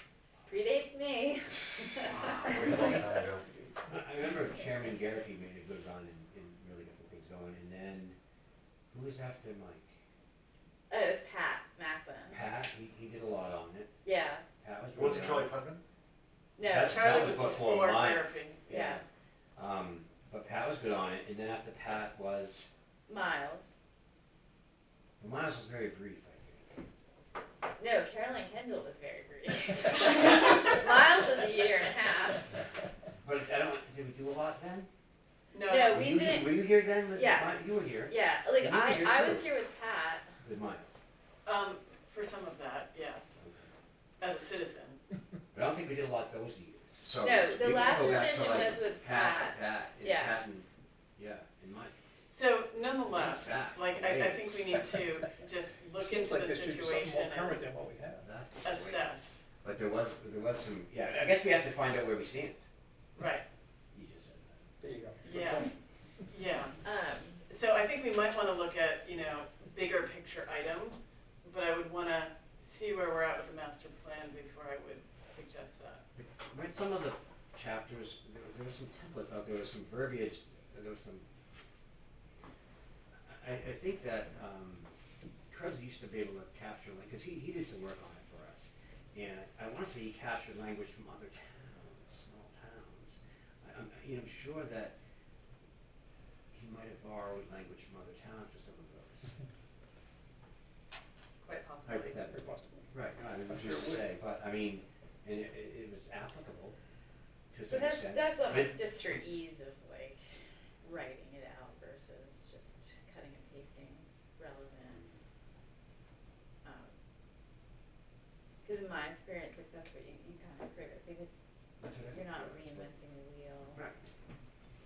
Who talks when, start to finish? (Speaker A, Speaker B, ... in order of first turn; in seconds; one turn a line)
Speaker A: 0.5-3.1
Speaker B: 2.0-3.8
Speaker C: 3.0-3.7
Speaker D: 3.9-8.2
Speaker D: 8.9-9.9
Speaker A: 10.9-12.4
Speaker D: 12.3-13.9
Speaker A: 14.0-14.4
Speaker D: 14.6-15.5
Speaker B: 14.9-15.8
Speaker A: 16.6-17.0
Speaker D: 16.6-19.0
Speaker E: 16.8-18.7
Speaker A: 18.7-19.0
Speaker D: 19.6-22.7
Speaker A: 23.1-23.8
Speaker D: 25.2-26.8
Speaker A: 27.8-32.5
Speaker D: 33.2-34.9
Speaker E: 35.5-36.0
Speaker A: 35.6-40.3
Speaker D: 35.9-39.4
Speaker D: 40.4-41.0
Speaker E: 41.4-43.4
Speaker D: 43.4-43.7
Speaker E: 44.2-45.0
Speaker D: 45.5-51.9
Speaker A: 47.2-50.4
Speaker E: 52.3-57.6
Speaker D: 53.1-54.9
Speaker C: 56.0-58.3
Speaker D: 58.2-62.6
Speaker E: 58.6-59.5
Speaker E: 63.1-63.4
Speaker D: 63.9-64.7
Speaker C: 64.8-65.7
Speaker E: 65.2-65.7
Speaker E: 66.3-66.8
Speaker A: 66.8-67.4
Speaker E: 67.5-76.0
Speaker D: 76.2-81.2
Speaker D: 83.2-84.9
Speaker D: 85.5-94.9
Speaker D: 96.5-99.3
Speaker E: 101.4-102.2
Speaker D: 101.8-106.8
Speaker C: 102.2-102.9
Speaker C: 103.5-104.0
Speaker D: 107.5-108.8
Speaker A: 107.7-110.2
Speaker A: 110.8-115.0
Speaker A: 116.6-116.9
Speaker A: 118.6-121.3
Speaker D: 121.8-122.9
Speaker A: 122.1-123.8
Speaker D: 123.7-124.1